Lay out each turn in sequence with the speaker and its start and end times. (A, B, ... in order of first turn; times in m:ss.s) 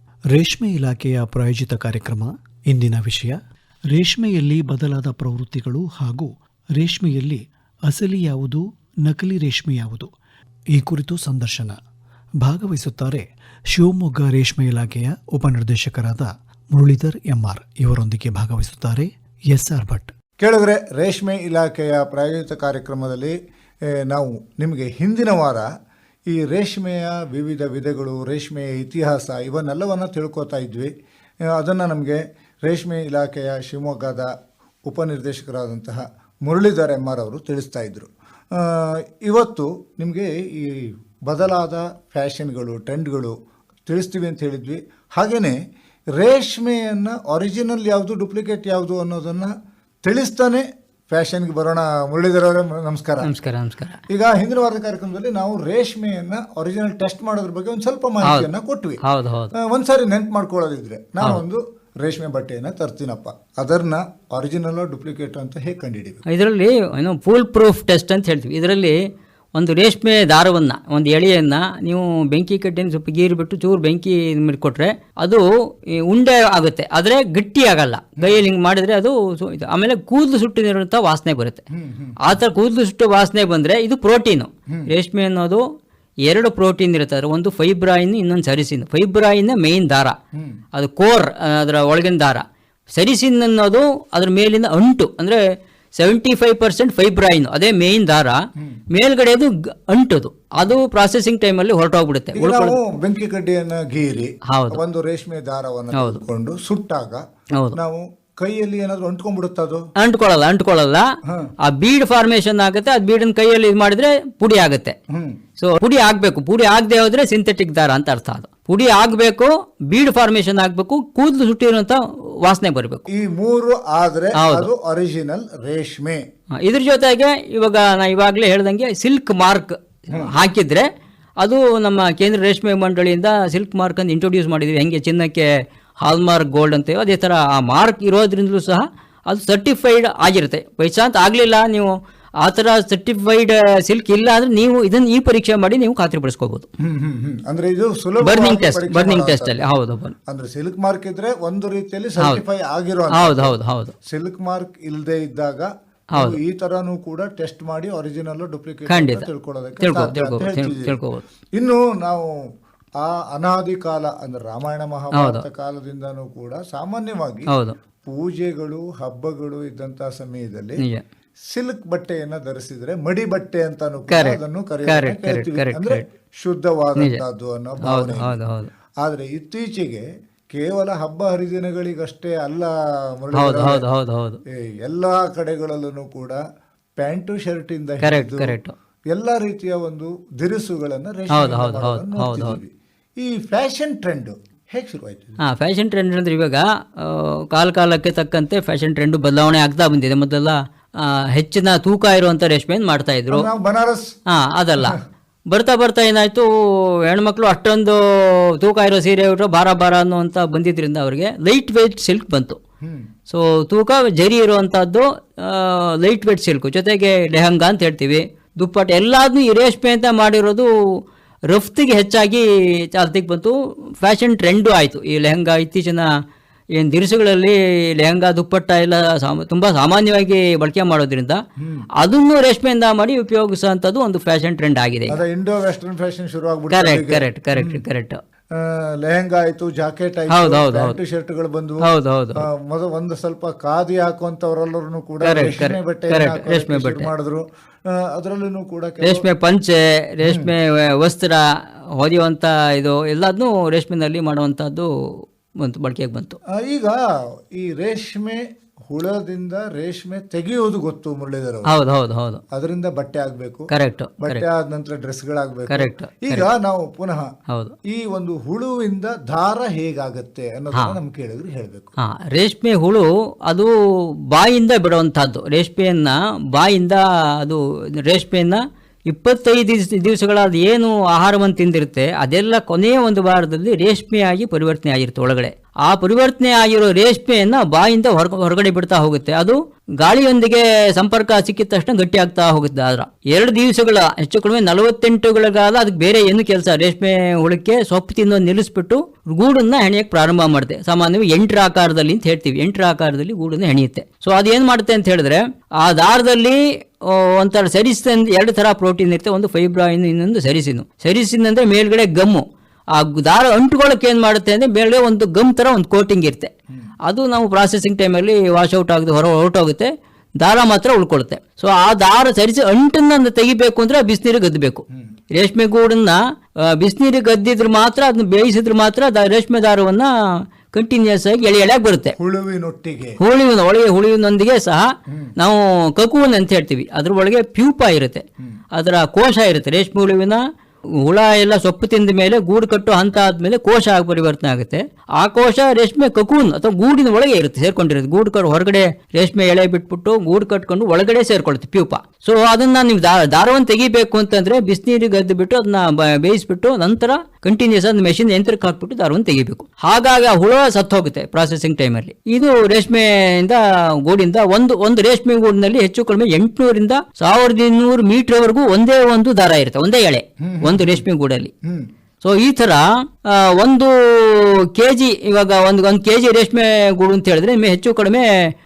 0:00.3-0:03.4 A
0:03.9-0:10.1 A
0:10.7-0:11.8 A
0:12.4-0:20.1 A
0:20.4-0:23.3 B
0:24.0-0:25.7 B
0:26.3-0:30.9 B
0:31.5-0:34.3 B
0:34.9-0:43.3 B
0:43.9-0:45.6 B
0:46.2-0:49.5 B
0:50.0-0:53.3 B
0:53.2-0:54.0 C
0:54.1-0:59.0 B
0:58.2-0:58.5 C
0:59.0-0:59.5 C
0:59.7-1:06.2 B
1:01.2-1:01.4 C
1:06.2-1:09.0 C
1:09.6-1:21.6 C
1:21.7-1:22.2 B
1:22.2-1:25.6 C
1:26.3-1:30.2 C
1:30.7-1:32.4 C
1:33.0-1:35.4 C
1:36.0-1:38.4 C
1:38.9-1:42.8 C
1:42.4-1:49.8 B
1:44.5-1:44.8 C
1:45.9-1:46.2 C
1:47.5-1:47.8 C
1:50.0-1:51.0 C
1:51.6-1:55.0 C
1:55.6-2:03.1 C
2:03.1-2:06.2 B
2:04.4-2:04.7 C
2:06.6-2:10.9 C
2:11.4-2:15.5 C
2:16.0-2:26.7 C
2:26.8-2:29.7 B
2:28.2-2:30.1 C
2:30.3-2:33.6 B
2:33.1-2:33.9 C
2:34.1-2:41.0 B
2:36.1-2:36.4 C
2:38.9-2:39.3 C
2:39.8-2:41.2 C
2:41.6-2:42.2 B
2:43.0-2:47.4 B
2:45.1-2:45.4 C
2:47.5-2:47.8 C
2:48.1-2:50.8 B
2:51.5-2:58.4 B
2:54.1-2:56.0 C
2:57.0-2:57.2 C
2:57.8-2:58.7 C
2:59.0-3:02.7 B
3:03.2-3:03.8 B
3:03.3-3:04.4 C
3:04.6-3:06.4 B
3:07.0-3:08.6 B
3:08.0-3:08.7 C
3:09.1-3:15.4 B
3:11.3-3:12.6 C
3:15.4-3:23.5 C
3:23.3-3:24.0 B
3:24.3-3:25.0 C
3:25.5-3:32.6 C
3:33.3-3:40.7 C
3:41.5-3:46.1 C
3:46.8-3:51.4 C
3:52.0-3:55.2 C
3:55.1-3:57.8 B
3:56.7-3:58.2 C
3:58.6-4:01.8 B
4:00.3-4:01.0 C
4:01.8-4:02.5 C
4:02.4-4:09.2 B
4:05.2-4:07.1 C
4:09.0-4:11.4 C
4:10.2-4:10.5 B
4:12.0-4:14.9 C
4:15.6-4:16.4 C
4:16.6-4:16.9 B
4:17.6-4:21.7 B
4:21.7-4:22.4 C
4:22.5-4:23.6 B
4:23.7-4:24.4 C
4:24.2-4:27.3 B
4:25.7-4:26.5 C
4:27.5-4:27.7 C
4:27.9-4:31.9 B
4:32.0-4:33.7 C
4:34.3-5:16.5 C
5:17.0-5:24.8 C
5:25.3-5:30.1 C
5:30.7-5:32.2 C
5:32.2-5:33.2 B
5:33.2-5:34.8 C
5:35.4-5:40.4 C
5:41.0-6:11.5 C
6:10.4-6:11.0 B
6:12.2-6:18.3 C